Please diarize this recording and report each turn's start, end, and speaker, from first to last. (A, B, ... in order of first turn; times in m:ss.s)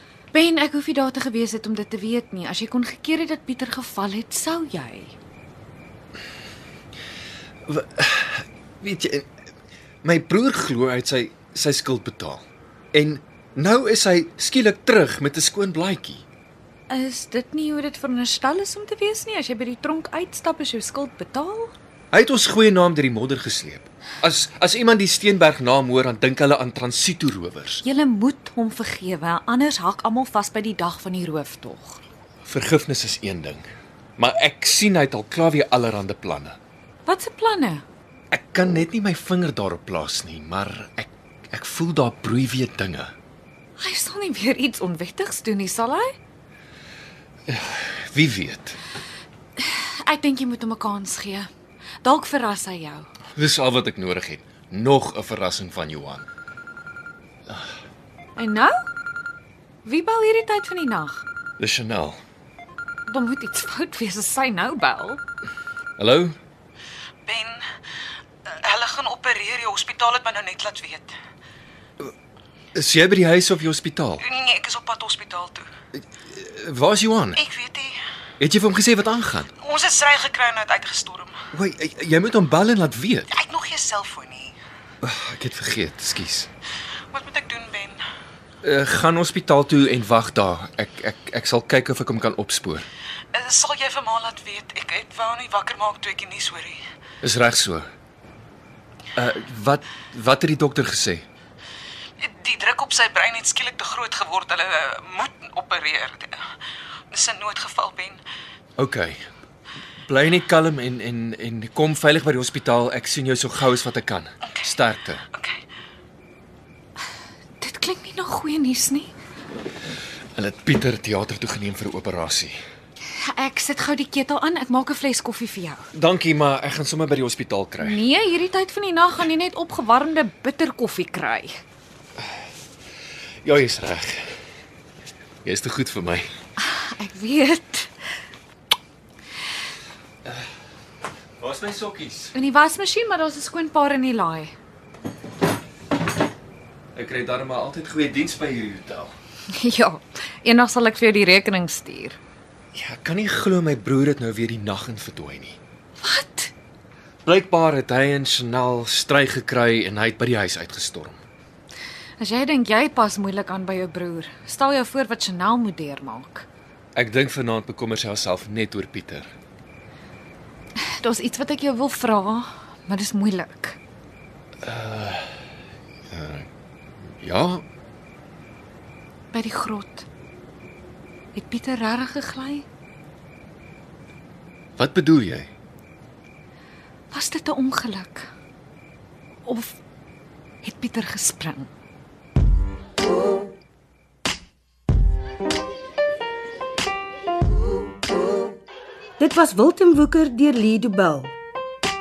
0:00.3-0:05.1 A
0:07.6-0:09.3 B
0:10.0-0:16.2 B
0:16.9-0:21.7 A
0:22.1-0:27.8 B
0:27.8-0:32.0 A
0:32.4-0:33.6 B
0:34.2-0:36.6 B
0:37.0-0:37.8 A
0:38.3-0:43.1 B
0:43.8-0:46.1 A
0:47.5-0:48.8 B
0:49.6-0:51.5 A
0:52.0-0:53.1 A
0:53.4-0:56.2 B
0:58.4-0:58.9 A
0:59.8-1:01.2 A
1:01.6-1:02.2 B
1:03.1-1:05.2 A
1:06.0-1:06.4 B
1:07.3-1:07.6 C
1:08.6-1:11.1 C
1:12.7-1:14.2 B
1:14.3-1:15.6 C
1:16.3-1:17.4 B
1:17.4-1:17.9 C
1:18.4-1:19.5 B
1:19.6-1:21.3 C
1:21.5-1:23.3 B
1:23.4-1:24.5 C
1:25.0-1:26.5 B
1:27.1-1:28.0 C
1:28.6-1:32.9 B
1:33.3-1:36.8 C
1:37.2-1:37.9 B
1:39.2-1:41.2 B
1:42.4-1:46.3 C
1:47.1-1:48.2 C
1:48.8-1:49.2 B
1:50.1-1:55.2 B
1:57.6-1:59.1 A
2:00.4-2:02.6 B
2:03.2-2:05.8 A
2:05.9-2:08.0 B
2:07.8-2:11.5 A
2:13.4-2:14.2 B
2:15.4-2:16.2 B
2:16.6-2:17.9 A
2:21.4-2:22.3 B
2:22.3-2:24.5 A
2:26.9-2:29.1 B
2:29.5-2:32.2 A
2:32.7-2:35.6 B
2:36.0-2:36.5 A
2:37.2-2:41.2 B
2:42.2-2:46.5 A
2:46.9-2:49.3 B
2:50.8-2:53.8 A
2:54.6-2:55.4 B
2:56.1-2:56.5 B
2:57.2-2:57.6 B
2:59.3-3:00.1 A
3:01.3-3:02.6 A
3:04.8-3:05.5 B
3:07.1-3:08.3 A
3:09.4-3:09.8 A
3:10.6-3:11.7 A
3:19.2-3:21.3 D